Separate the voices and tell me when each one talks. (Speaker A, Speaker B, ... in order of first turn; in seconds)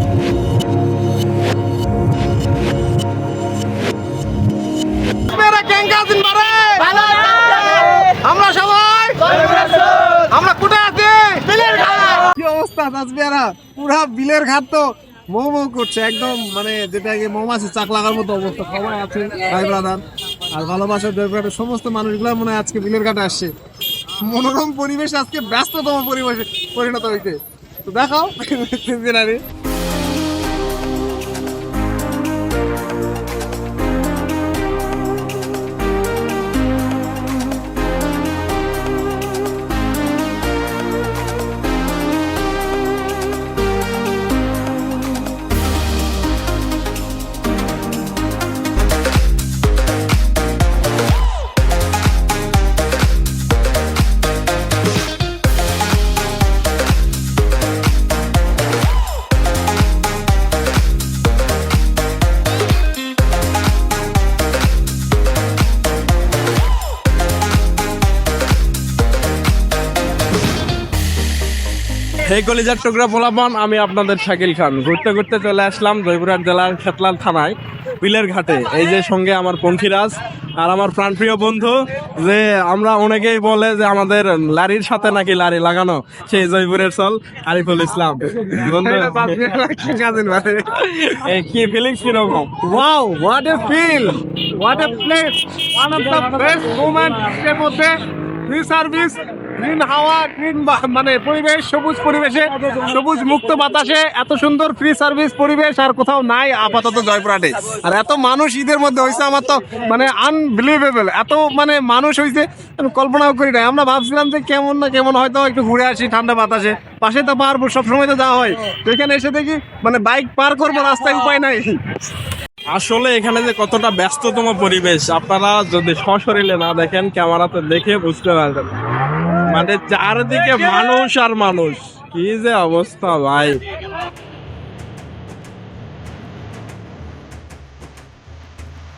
Speaker A: 5.3-23.5, 24.2-29.4, 88.3-90.8, 92.6-97.9, 98.5-121.8
Speaker B: 72.2-89.3, 90.7-92.5, 122.7-128.7, 129.4-133.6